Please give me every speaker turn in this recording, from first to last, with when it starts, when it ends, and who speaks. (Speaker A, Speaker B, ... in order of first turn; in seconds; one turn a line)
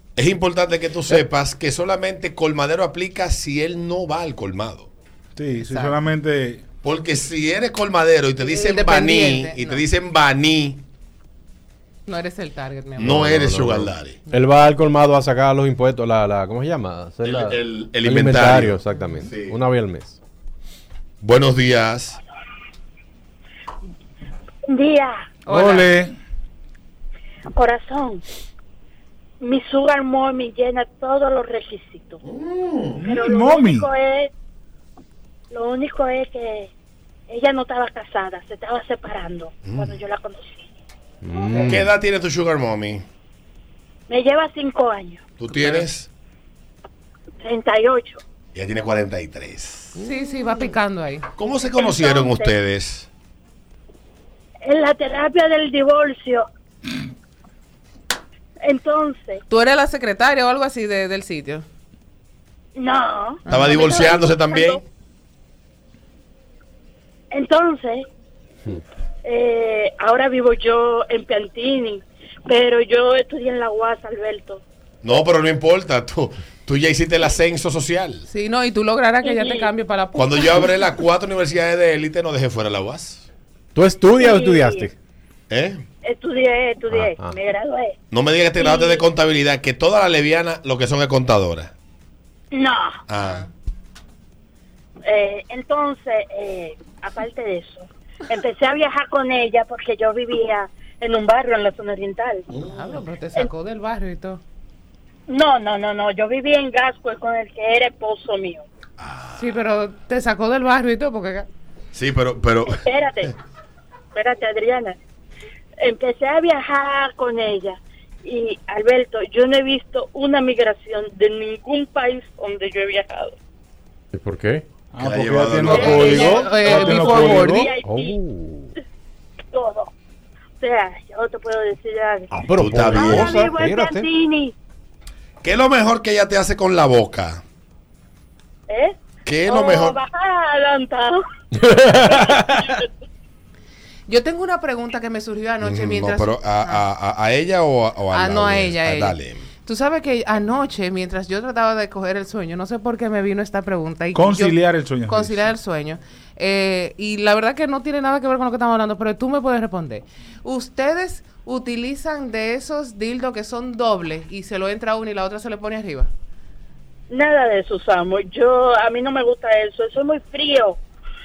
Speaker A: 0.1-4.9
Speaker B: 5.3-6.6
Speaker C: 5.5-6.0
Speaker A: 6.8-10.8
Speaker C: 8.4-9.8
Speaker C: 12.1-13.3
Speaker A: 13.0-14.2
Speaker D: 13.0-20.2
Speaker A: 17.2-19.6
Speaker C: 18.9-19.2
Speaker A: 21.2-22.2
Speaker E: 24.6-25.2
Speaker C: 25.5-25.9
Speaker D: 25.5-25.8
Speaker B: 25.6-26.1
Speaker E: 27.5-28.2
Speaker E: 29.4-32.2
Speaker A: 32.2-33.1
Speaker B: 33.0-33.9
Speaker E: 33.0-34.3
Speaker E: 35.5-36.7
Speaker E: 37.3-40.5
Speaker A: 39.6-40.0
Speaker D: 41.2-41.9
Speaker C: 41.5-41.7
Speaker A: 41.5-43.0
Speaker E: 44.1-45.3
Speaker A: 45.4-46.1
Speaker C: 45.5-45.9
Speaker E: 47.4-48.2
Speaker A: 48.5-49.9
Speaker C: 50.0-51.3
Speaker A: 51.4-53.1
Speaker E: 51.8-52.5
Speaker E: 54.6-56.5
Speaker E: 58.6-59.4
Speaker C: 59.5-61.6
Speaker E: 62.8-64.8
Speaker C: 63.5-64.3
Speaker A: 63.5-64.8
Speaker E: 67.3-68.0
Speaker E: 69.2-74.6
Speaker A: 75.0-78.2
Speaker C: 78.3-80.7
Speaker E: 79.2-79.7
Speaker A: 80.1-83.2
Speaker D: 83.7-84.9
Speaker E: 84.1-84.9
Speaker A: 85.5-85.8
Speaker E: 86.0-87.9
Speaker D: 86.9-87.4
Speaker A: 88.1-91.7
Speaker E: 88.5-89.1
Speaker E: 92.5-93.0
Speaker A: 93.1-93.5
Speaker C: 93.2-93.5
Speaker E: 95.0-102.5
Speaker A: 102.5-103.0
Speaker C: 102.6-104.4
Speaker E: 105.3-108.6
Speaker A: 109.0-109.6
Speaker C: 109.3-111.5
Speaker A: 111.9-112.8
Speaker E: 112.7-113.3
Speaker E: 114.1-114.9
Speaker E: 115.8-123.3
Speaker D: 124.1-124.7
Speaker B: 124.9-127.7
Speaker A: 125.0-126.3
Speaker E: 125.6-128.2
Speaker C: 126.2-127.7
Speaker D: 127.4-128.7
Speaker E: 129.5-129.9
Speaker E: 130.6-132.3
Speaker D: 132.3-134.1
Speaker A: 132.5-133.4
Speaker E: 132.9-134.5
Speaker A: 135.4-137.4
Speaker E: 138.7-141.2
Speaker A: 139.2-140.0
Speaker D: 141.5-142.7
Speaker E: 141.9-142.8
Speaker C: 144.1-146.8
Speaker A: 145.6-149.4
Speaker C: 148.1-166.1
Speaker B: 154.1-155.5
Speaker E: 167.1-170.8